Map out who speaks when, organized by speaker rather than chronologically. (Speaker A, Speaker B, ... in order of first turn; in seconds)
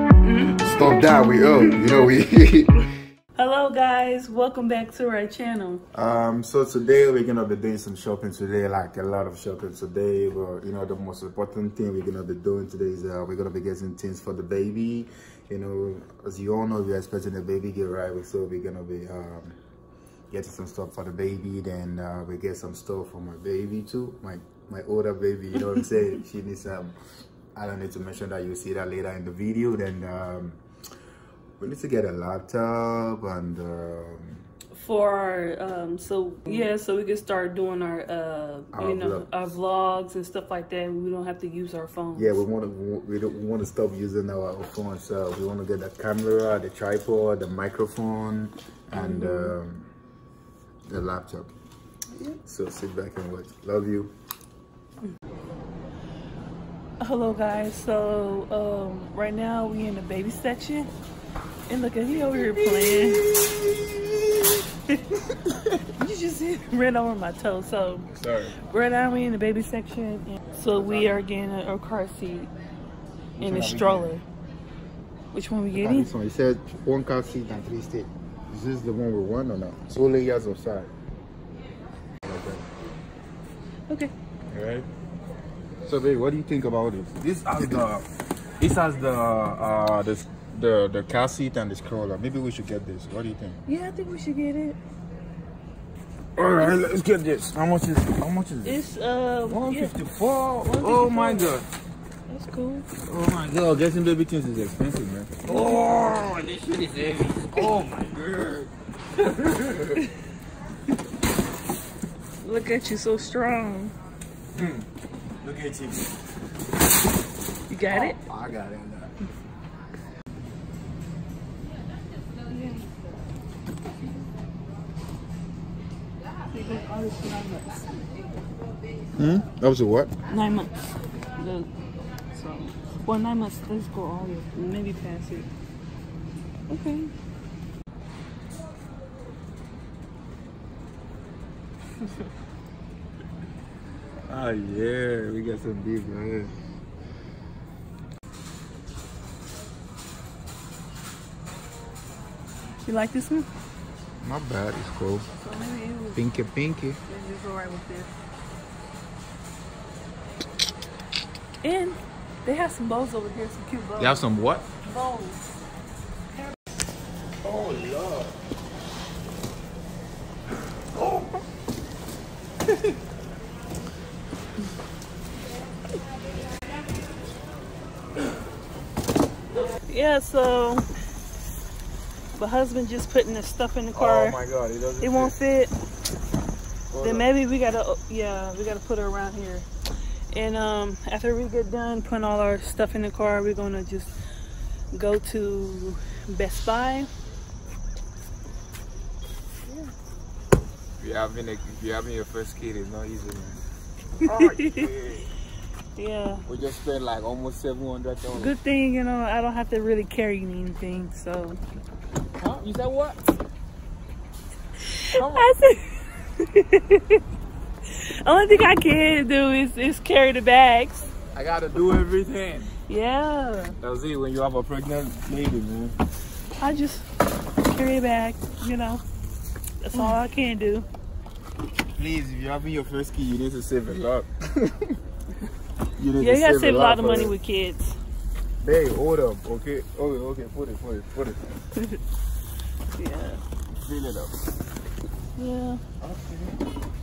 Speaker A: 0.2-0.6, 3.3-5.8, 34.7-42.4, 48.9-49.5, 57.0-60.9, 61.7-63.2, 66.0-68.1, 68.7-72.5, 73.4-74.2, 75.3-76.1, 93.7-94.8, 98.6-99.9, 100.7-101.6, 102.3-102.9, 105.5-105.9, 112.4-113.9, 117.7-118.2, 122.5-122.9, 126.5-128.1, 130.3-131.7, 132.3-135.5, 136.7-137.1, 152.8-153.5, 155.4-156.2, 157.1-158.1, 161.6-164.2, 164.8-165.4, 179.9-180.9, 182.3-184.4, 185.0-185.7, 187.0-189.7, 190.3-194.1, 194.9-197.1, 204.3-204.9, 205.9-206.4, 208.3-211.6, 214.8-217.2, 217.9-221.0, 222.9-223.8, 226.6-227.1, 227.6-229.0, 229.8-230.9, 236.2-238.0, 243.0-243.4, 245.4-245.8
Speaker B: 0.6-2.8, 5.9-19.6, 20.3-26.9, 27.5-30.6, 31.6-34.5, 38.7-39.5, 42.1-49.9, 50.9-51.5, 52.4-54.1, 62.8-63.9, 65.5-65.7, 68.1-68.6, 70.7-71.2, 73.4-74.2, 75.7-80.9, 82.2-82.7, 84.5-84.9, 85.8-88.1, 88.6-93.6, 96.3-98.8, 99.5-101.7, 103.0-110.0, 114.5-114.8, 115.4-116.1, 117.9-119.1, 129.2-130.1, 144.3-146.5, 154.2-155.3, 156.1-157.0, 164.0-164.7, 167.4-168.4, 183.9-185.3, 186.9-187.3, 201.0-203.6, 204.2-205.3, 206.4-208.6, 212.3-213.2, 215.1-215.5, 221.3-222.7, 223.8-225.9, 231.9-235.0, 236.0-237.3, 238.6-241.5, 243.7-244.4, 246.0-246.5